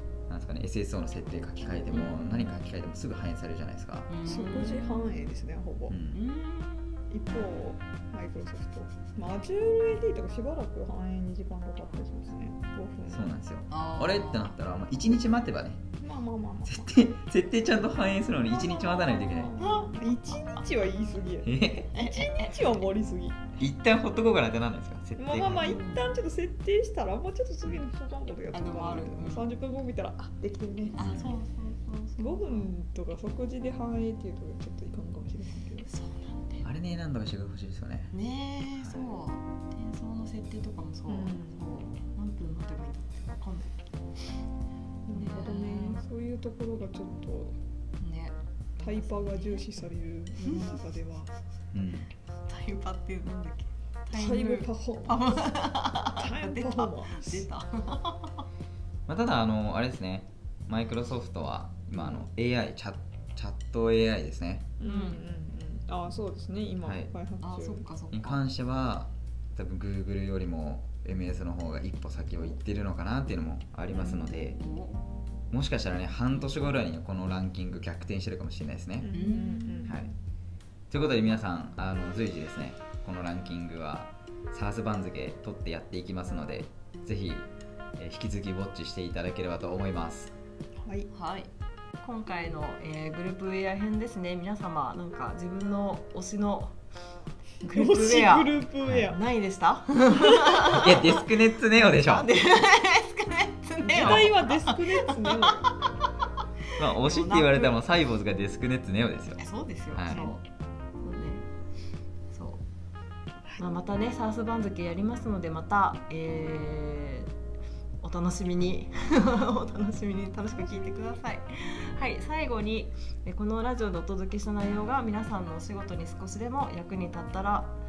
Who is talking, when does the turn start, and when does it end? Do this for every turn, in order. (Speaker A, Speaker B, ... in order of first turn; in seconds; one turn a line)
Speaker A: 0.3-4.1
Speaker B: 1.9-2.3
Speaker B: 4.1-5.2
Speaker C: 4.2-6.0
Speaker A: 5.9-6.2
Speaker B: 6.1-7.1
Speaker C: 7.1-13.3
Speaker A: 13.1-15.8
Speaker B: 13.7-14.6
Speaker C: 16.0-16.9
Speaker A: 16.7-19.6
Speaker C: 18.5-23.4
Speaker B: 19.6-20.1
Speaker A: 21.4-21.9
Speaker B: 21.9-22.7
Speaker A: 23.6-25.8
Speaker C: 25.2-31.2
Speaker B: 25.6-26.2
Speaker B: 28.5-29.5
Speaker B: 30.9-32.7
Speaker A: 31.0-31.3
Speaker C: 32.2-35.9
Speaker B: 35.9-36.7
Speaker A: 36.6-38.1
Speaker B: 38.1-43.8
Speaker A: 38.8-39.2
Speaker C: 41.1-41.7
Speaker C: 45.1-47.5
Speaker B: 45.1-46.0
Speaker B: 48.0-49.8
Speaker C: 48.8-51.3
Speaker B: 50.5-50.8
Speaker A: 51.7-52.1
Speaker B: 52.5-58.4
Speaker C: 54.1-55.4
Speaker C: 56.1-57.5
Speaker A: 59.1-64.7
Speaker C: 62.0-62.2
Speaker C: 64.8-67.9
Speaker B: 64.8-65.2
Speaker A: 66.8-67.1
Speaker B: 67.4-68.4
Speaker A: 68.1-74.6
Speaker B: 74.0-75.0
Speaker A: 75.5-79.1
Speaker C: 79.0-80.0
Speaker B: 79.1-80.0
Speaker A: 79.9-80.1
Speaker A: 80.9-90.3
Speaker C: 90.8-91.1
Speaker B: 91.1-96.8
Speaker B: 97.6-105.7
Speaker C: 97.7-99.2
Speaker A: 100.7-102.3
Speaker C: 103.8-105.8
Speaker A: 104.0-104.3
Speaker A: 106.8-110.2
Speaker B: 106.8-107.8
Speaker B: 109.4-110.4
Speaker C: 110.1-110.3
Speaker B: 111.0-111.5
Speaker B: 112.3-112.6
Speaker B: 113.6-117.3
Speaker B: 118.0-127.8
Speaker C: 120.5-121.2